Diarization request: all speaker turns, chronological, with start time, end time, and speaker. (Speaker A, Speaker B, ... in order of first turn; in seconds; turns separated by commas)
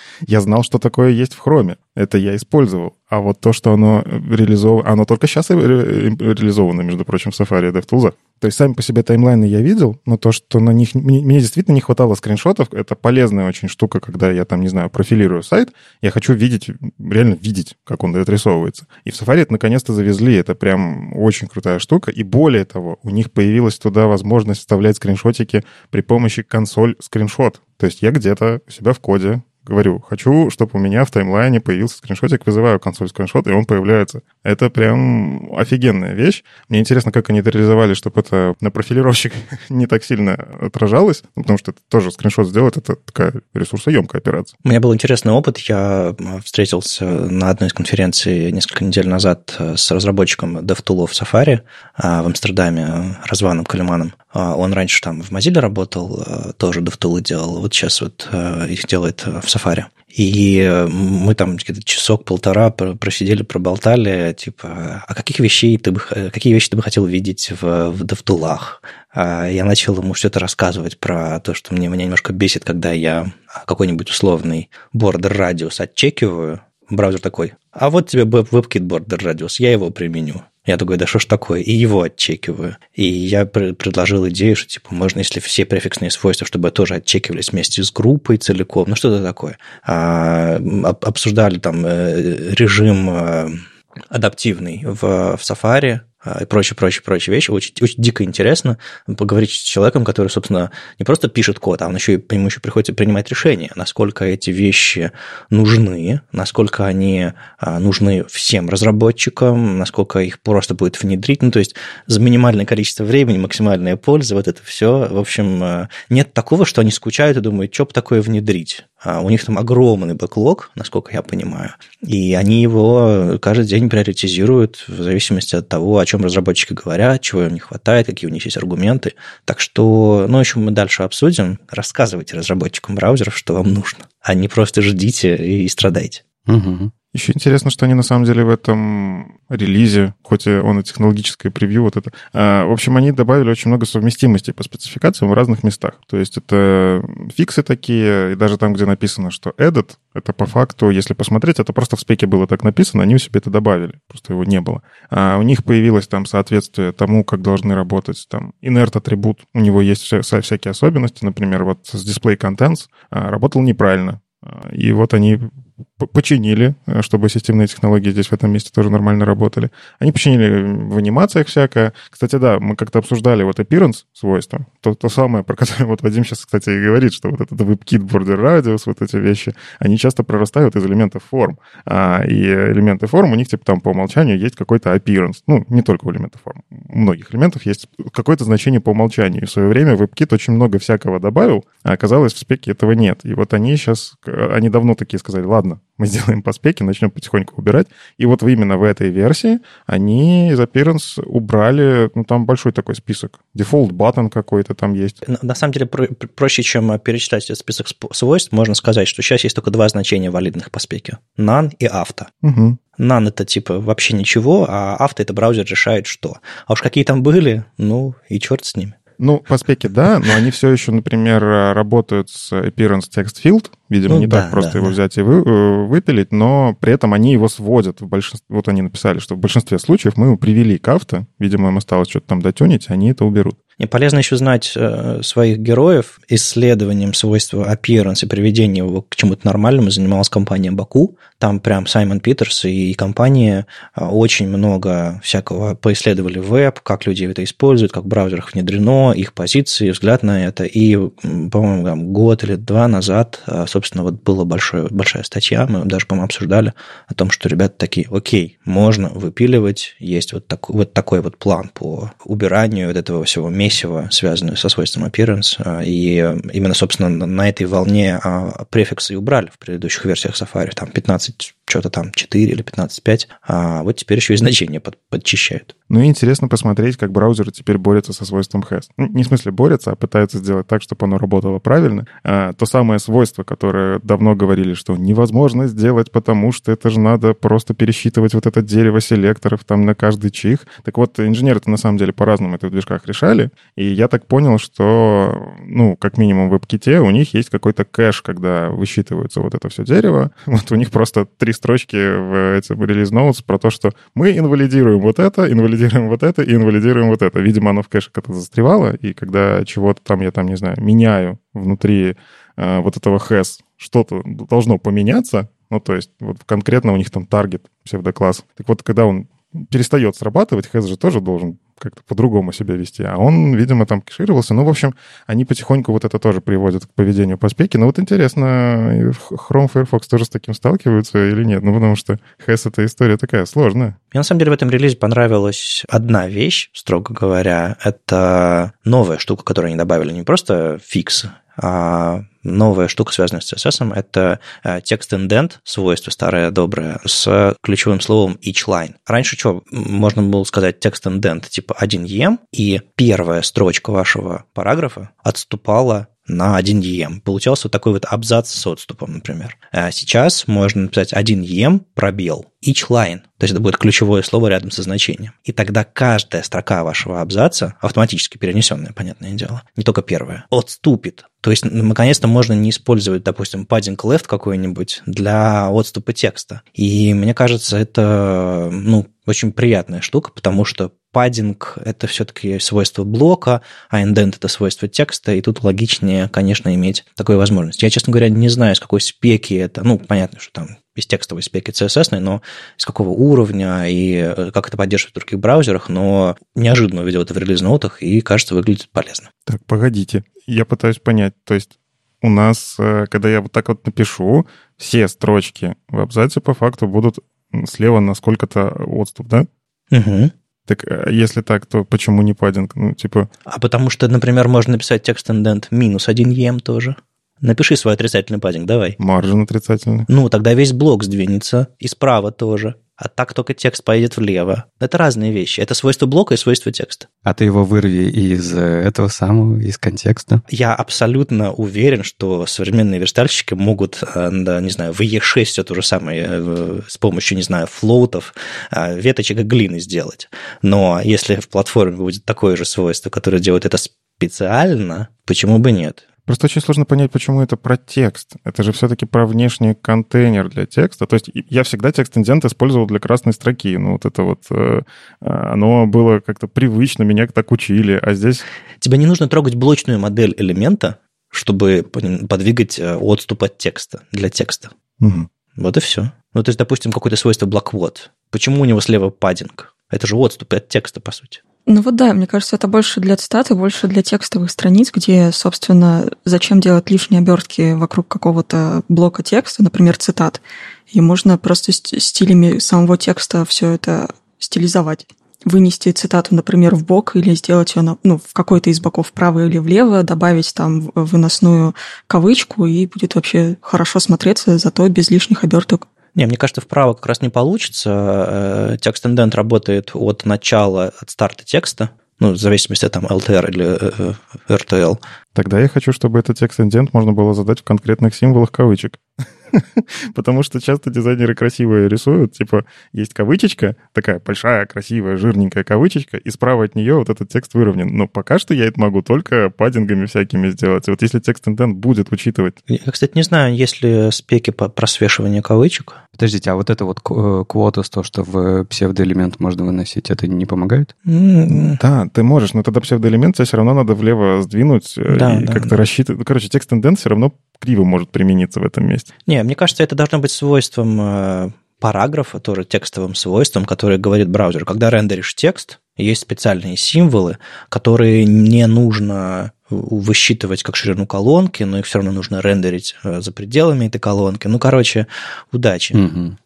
Speaker A: 0.3-44.5, Speaker B: 44.6-136.2, Speaker C: 136.5-136.9, Speaker A: 137.1-205.2, Speaker B: 205.2-212.3, Speaker A: 212.4-212.8, Speaker B: 213.0-219.0, Speaker A: 219.2-233.6, Speaker B: 224.1-225.0, Speaker B: 233.8-275.7, Speaker A: 275.9-334.0, Speaker B: 334.1-399.3, Speaker A: 399.5-401.7, Speaker A: 402.2-409.5, Speaker B: 409.9-410.3, Speaker A: 410.7-413.3, Speaker B: 413.5-419.0, Speaker A: 419.0-420.1, Speaker B: 420.1-427.1, Speaker C: 427.2-430.4, Speaker B: 430.5-446.0, Speaker A: 446.3-458.4, Speaker B: 458.8-464.7, Speaker A: 465.0-465.3, Speaker B: 465.6-471.4, Speaker D: 471.7-495.9, Speaker B: 496.1-505.0, Speaker A: 505.4-509.0, Speaker A: 509.5-522.6, Speaker B: 522.7-526.0, Speaker C: 526.2-530.9, Speaker B: 531.1-531.8, Speaker A: 531.5-539.1, Speaker B: 535.1-535.7, Speaker B: 539.3-556.0, Speaker C: 556.0-556.4